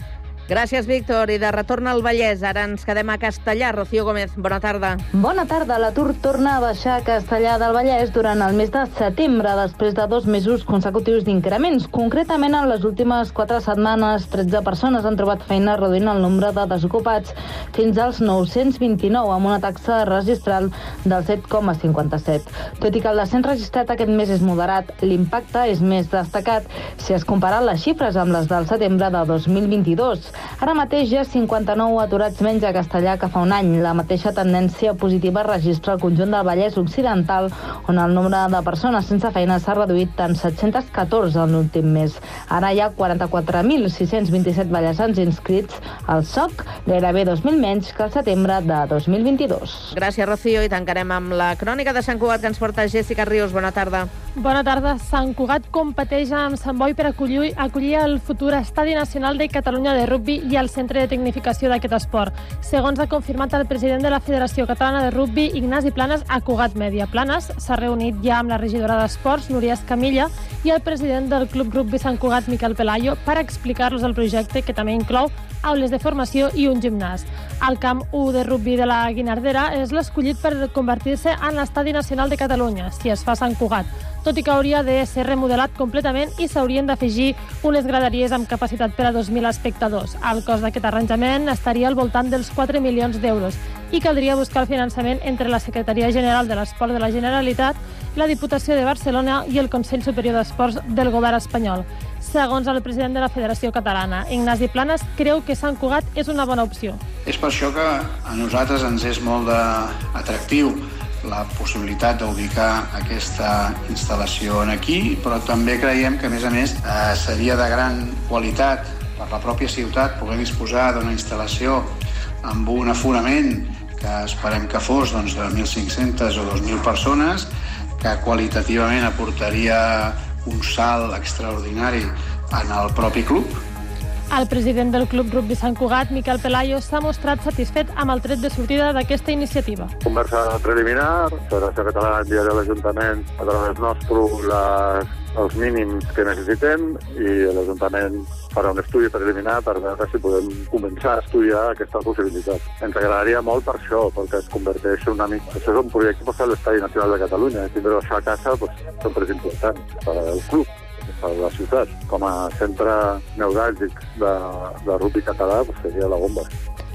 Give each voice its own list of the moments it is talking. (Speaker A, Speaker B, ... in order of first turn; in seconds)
Speaker A: 0.5-5.0, 49.9-54.1
Speaker B: 5.1-49.9
Speaker C: 54.4-107.0, 134.3-139.9
Speaker D: 107.2-133.7
Speaker E: 140.1-166.5